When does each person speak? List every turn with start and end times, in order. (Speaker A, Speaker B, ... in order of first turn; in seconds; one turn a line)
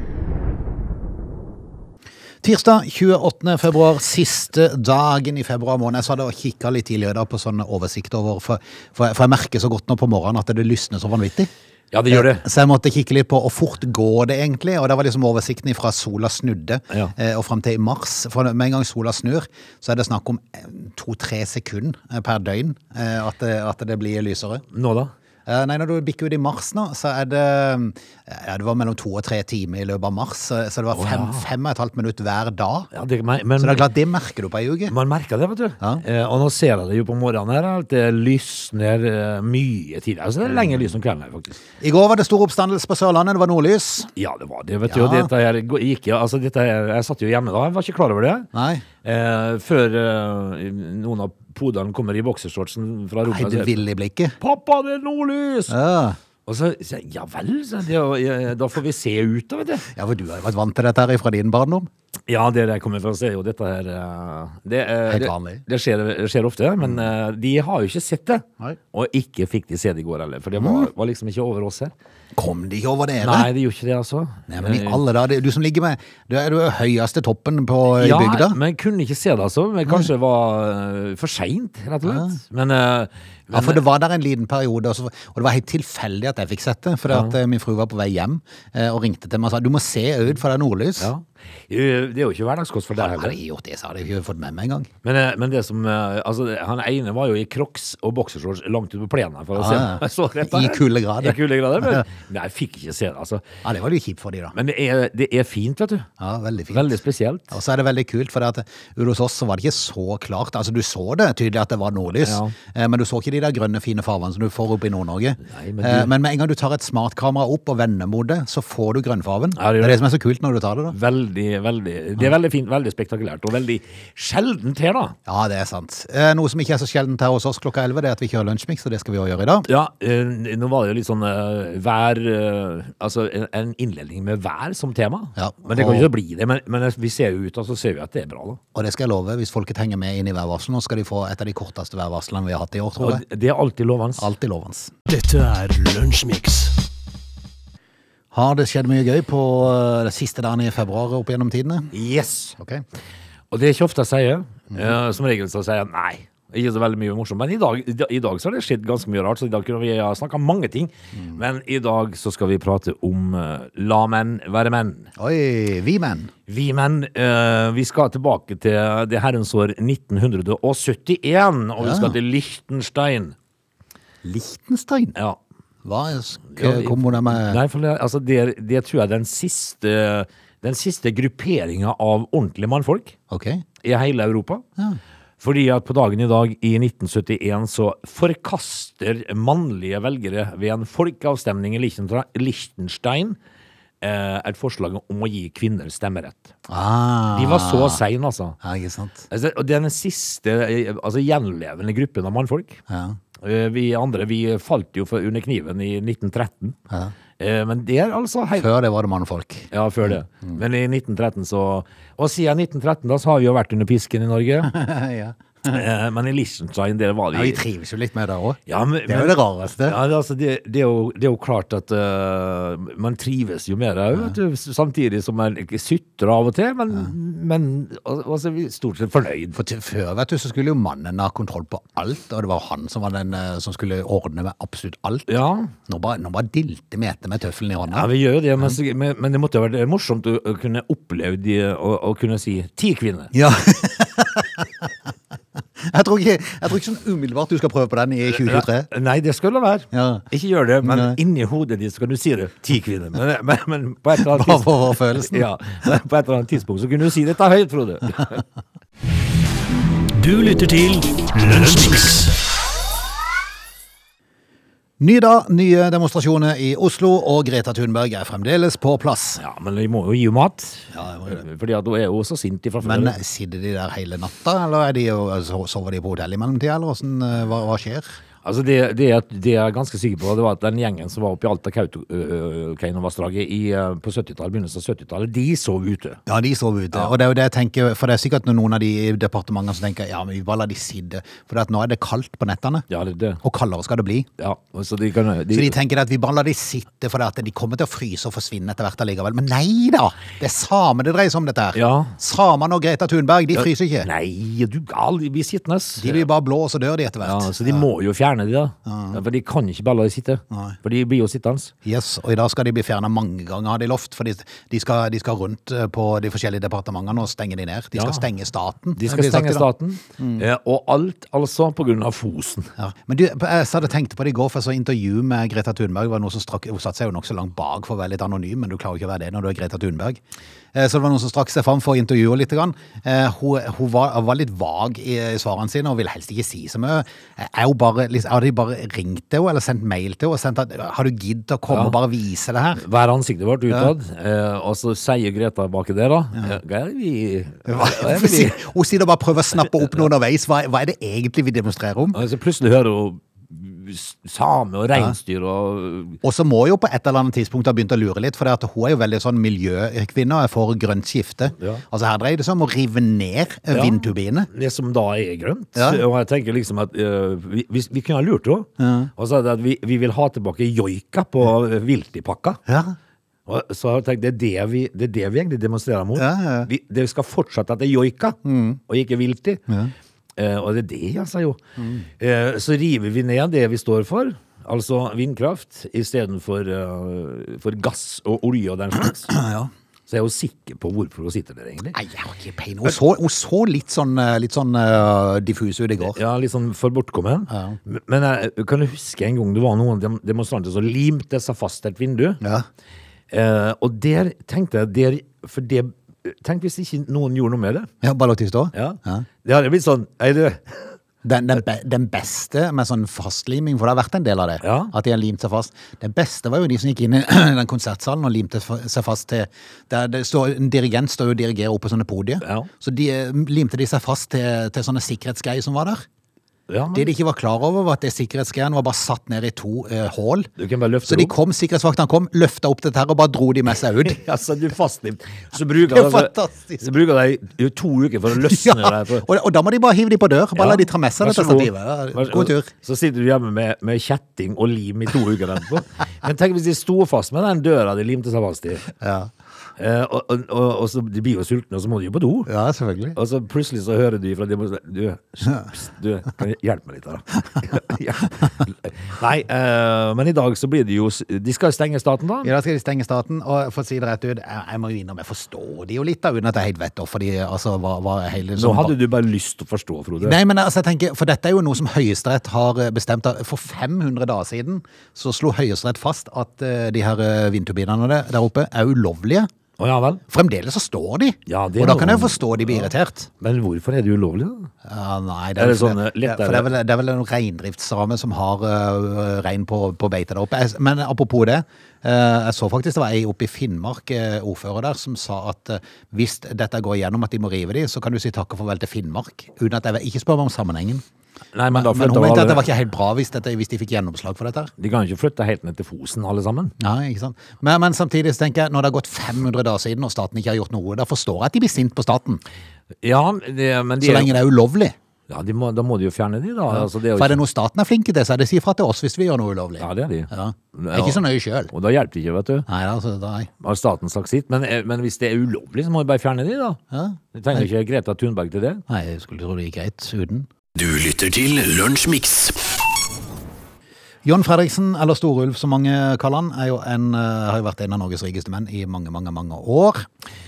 Speaker A: 2.4-11.5
Speaker B: 11.9-12.4
Speaker A: 12.1-24.6
Speaker B: 24.7-25.1
Speaker A: 25.5-32.9
Speaker B: 30.9-31.5
Speaker B: 32.9-33.9
Speaker A: 33.6-35.0
Speaker B: 34.9-41.6
Speaker A: 41.8-44.1
Speaker B: 44.2-48.5
Speaker A: 44.9-45.3
Speaker A: 48.5-48.8
Speaker B: 49.0-53.8
Speaker A: 53.3-54.3
Speaker B: 54.4-55.7
Speaker A: 55.7-56.2
Speaker B: 56.5-59.9
Speaker A: 59.9-61.9
Speaker B: 62.3-71.9
Speaker A: 65.1-65.6
Speaker A: 70.6-70.9
Speaker A: 72.3-73.5
Speaker B: 73.2-75.0
Speaker A: 74.5-78.6
Speaker B: 77.9-83.8
Speaker A: 82.0-82.4
Speaker A: 83.5-91.1
Speaker B: 87.1-87.3
Speaker B: 91.0-93.4
Speaker A: 92.9-94.9
Speaker B: 95.0-103.4
Speaker A: 99.5-102.0
Speaker A: 103.6-104.5
Speaker B: 104.5-106.1
Speaker A: 106.2-106.9
Speaker B: 106.7-107.5
Speaker A: 107.5-121.0
Speaker B: 112.2-112.5
Speaker B: 115.4-116.1
Speaker B: 119.5-120.0
Speaker B: 120.9-125.1
Speaker A: 125.2-129.7
Speaker B: 129.7-138.6
Speaker A: 135.4-136.1
Speaker A: 138.8-143.2
Speaker B: 143.0-144.2
Speaker A: 144.2-144.9
Speaker C: 145.1-146.8
Speaker A: 148.3-151.9
Speaker B: 151.9-152.6
Speaker A: 152.6-152.8
Speaker B: 153.5-165.1
Speaker A: 165.2-166.3
Speaker B: 166.5-173.3
Speaker A: 171.8-172.2
Speaker A: 174.2-175.2
Speaker A: 175.8-177.6
Speaker B: 176.6-183.2
Speaker A: 183.3-183.6
Speaker B: 183.8-184.6
Speaker B: 185.4-193.4
Speaker B: 194.0-196.5
Speaker A: 196.7-198.0
Speaker B: 197.3-198.6
Speaker A: 198.6-199.3
Speaker B: 199.3-202.8
Speaker A: 202.9-203.2
Speaker B: 203.4-206.8
Speaker B: 207.4-208.7
Speaker A: 208.6-210.6
Speaker B: 209.7-214.7
Speaker A: 214.7-215.8
Speaker B: 215.7-217.6
Speaker A: 217.3-220.0
Speaker B: 218.7-229.6
Speaker A: 229.5-235.3
Speaker B: 235.3-235.7
Speaker A: 235.9-238.1
Speaker B: 237.9-243.3
Speaker A: 243.3-244.9
Speaker A: 245.8-248.9
Speaker B: 248.3-258.4
Speaker A: 249.9-250.3
Speaker A: 250.8-251.2
Speaker A: 254.2-255.9
Speaker C: 260.1-262.4
Speaker A: 265.0-269.4
Speaker B: 269.4-273.1
Speaker A: 270.9-271.4
Speaker A: 272.8-278.1
Speaker B: 278.4-286.2
Speaker A: 286.3-292.9
Speaker B: 292.9-293.4
Speaker A: 293.4-294.3
Speaker B: 294.4-295.8
Speaker A: 295.5-304.1
Speaker B: 301.8-302.1
Speaker B: 303.5-306.2
Speaker A: 306.0-307.9
Speaker B: 307.2-311.7
Speaker A: 308.9-309.2
Speaker A: 311.8-319.7
Speaker B: 317.9-318.2
Speaker B: 319.0-322.7
Speaker A: 320.2-320.4
Speaker A: 322.8-330.2
Speaker A: 330.7-342.8
Speaker B: 341.7-341.9
Speaker B: 342.8-348.6
Speaker A: 347.7-352.2
Speaker B: 352.1-356.2
Speaker A: 356.2-364.5
Speaker B: 361.6-361.8
Speaker B: 363.7-372.6
Speaker A: 365.8-366.0
Speaker A: 368.8-369.1
Speaker A: 372.7-372.9
Speaker B: 373.4-379.6
Speaker A: 376.1-376.7
Speaker A: 378.4-378.8
Speaker B: 380.4-381.6
Speaker A: 381.8-382.1
Speaker B: 382.2-389.3
Speaker A: 389.3-389.7
Speaker B: 390.1-391.9
Speaker A: 391.9-396.2
Speaker B: 396.0-402.4
Speaker A: 397.5-397.8
Speaker A: 402.4-402.6
Speaker B: 403.3-407.9
Speaker A: 408.0-409.2
Speaker B: 408.7-410.9
Speaker A: 411.2-426.0
Speaker B: 414.6-414.9
Speaker B: 422.4-422.7
Speaker B: 426.7-427.1
Speaker A: 426.9-430.5
Speaker B: 430.6-431.3
Speaker A: 431.0-434.2
Speaker B: 434.0-439.2
Speaker A: 435.8-436.8
Speaker A: 438.4-442.7
Speaker B: 440.6-448.9
Speaker A: 449.0-449.3
Speaker B: 449.8-452.5
Speaker A: 452.5-453.2
Speaker B: 453.1-462.5
Speaker A: 462.4-468.9
Speaker B: 468.6-470.4
Speaker A: 470.2-479.5
Speaker B: 479.8-480.2
Speaker A: 480.3-483.3
Speaker B: 481.5-484.7
Speaker A: 484.8-501.0
Speaker B: 485.6-486.7
Speaker B: 501.5-502.6
Speaker A: 501.7-504.7
Speaker B: 504.8-506.7
Speaker A: 506.8-512.4
Speaker B: 513.0-514.4
Speaker A: 514.0-515.0
Speaker B: 515.3-517.4
Speaker A: 516.7-521.7
Speaker B: 519.8-522.7
Speaker A: 522.7-523.5
Speaker B: 523.6-526.8
Speaker A: 526.9-527.7
Speaker B: 527.3-528.8
Speaker A: 528.9-530.5
Speaker C: 530.8-532.6
Speaker A: 534.2-540.1